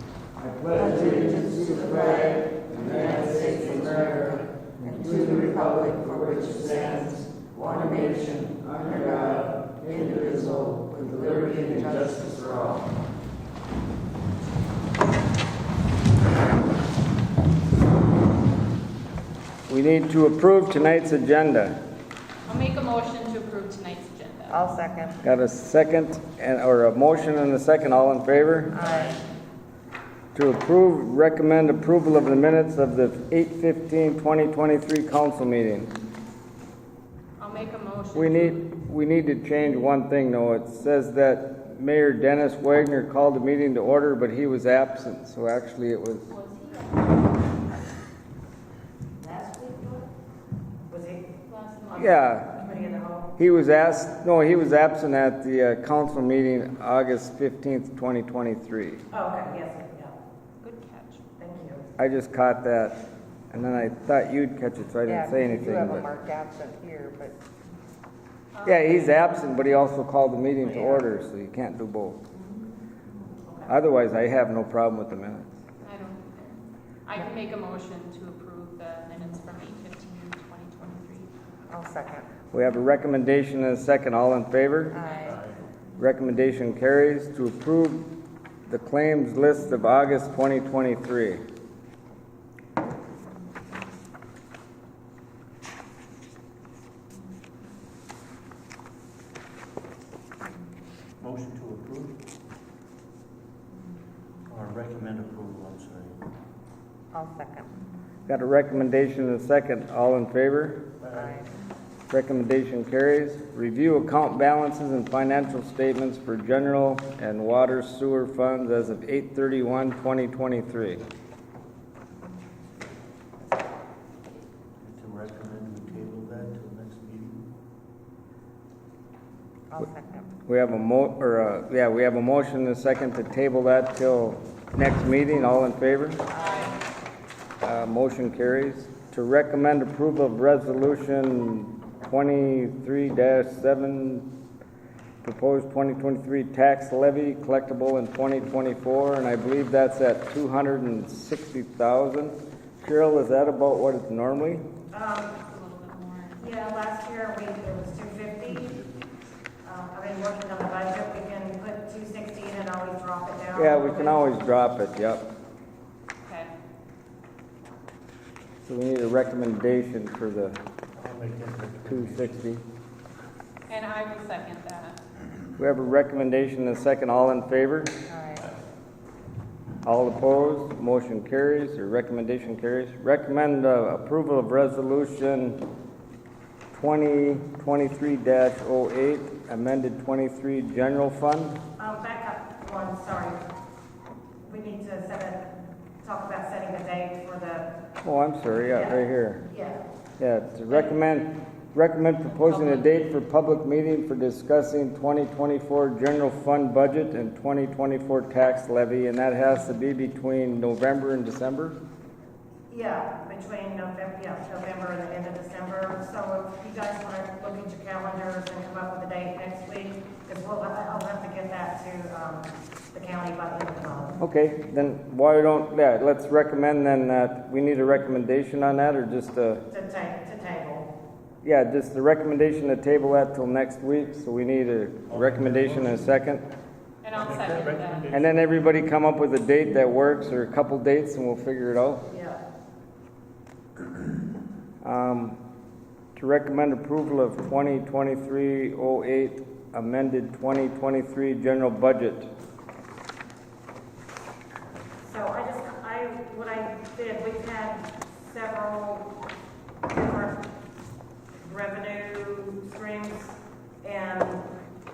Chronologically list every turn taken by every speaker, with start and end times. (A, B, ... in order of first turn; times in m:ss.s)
0:00.4-0:12.8 A
0:00.8-0:04.3 B
0:04.8-0:12.6 B
0:19.7-0:21.8 A
0:22.5-0:24.6 C
0:24.5-0:25.2 B
0:25.2-0:28.8 A
0:28.8-0:29.2 B
0:28.9-0:29.1 C
0:30.4-0:35.9 A
0:37.4-0:38.6 C
0:38.1-0:46.3 A
0:46.3-0:47.1 C
0:49.2-0:50.0 C
0:50.9-0:51.3 D
0:51.5-0:52.1 C
0:51.9-0:53.3 D
0:51.9-0:52.6 A
0:53.4-0:59.0 A
0:59.1-1:00.1 D
1:00.6-1:01.2 C
1:01.4-1:01.9 D
1:02.0-1:03.0 A
1:03.5-1:06.1 A
1:05.0-1:07.4 B
1:08.6-1:08.9 C
1:08.6-1:12.2 A
1:13.7-1:15.5 A
1:15.8-1:21.3 C
1:21.7-1:22.3 B
1:22.5-1:25.0 A
1:24.9-1:25.4 B
1:25.2-1:25.6 E
1:26.0-1:28.1 A
1:28.7-1:31.4 A
1:41.2-1:42.2 E
1:44.5-1:46.2 E
1:47.1-1:47.7 B
1:48.3-1:50.9 A
1:51.0-1:51.4 E
1:52.1-2:01.0 A
2:04.8-2:07.5 E
2:09.7-2:10.3 B
2:10.5-2:16.3 A
2:16.4-2:16.7 C
2:17.6-2:24.3 A
2:25.2-2:34.7 A
2:34.9-2:35.4 D
2:35.5-2:36.4 C
2:36.4-2:38.8 D
2:39.6-2:44.3 D
2:43.6-2:45.3 A
2:46.2-2:46.5 C
2:48.6-2:50.6 A
2:51.0-2:52.5 E
2:51.9-2:52.6 A
2:53.7-2:55.0 C
2:55.6-2:57.9 A
2:58.1-2:58.5 B
2:59.8-3:05.7 A
3:06.7-3:11.6 A
3:11.8-3:13.4 D
3:14.4-3:15.5 D
3:16.0-3:17.7 D
3:18.0-3:19.4 A
3:18.7-3:19.8 D
3:20.2-3:31.8 A
3:22.3-3:22.9 C
3:32.7-3:44.2 D
3:44.2-3:49.6 A
3:49.7-3:50.9 D
3:51.4-3:56.5 A
3:55.1-3:56.1 E
3:57.0-3:58.1 C
3:57.1-3:58.5 E
3:58.1-4:02.0 A
4:02.1-4:02.4 D
4:04.8-4:05.4 A
4:06.2-4:12.3 A
4:15.0-4:19.1 D
4:19.9-4:20.4 D
4:21.4-4:24.4 D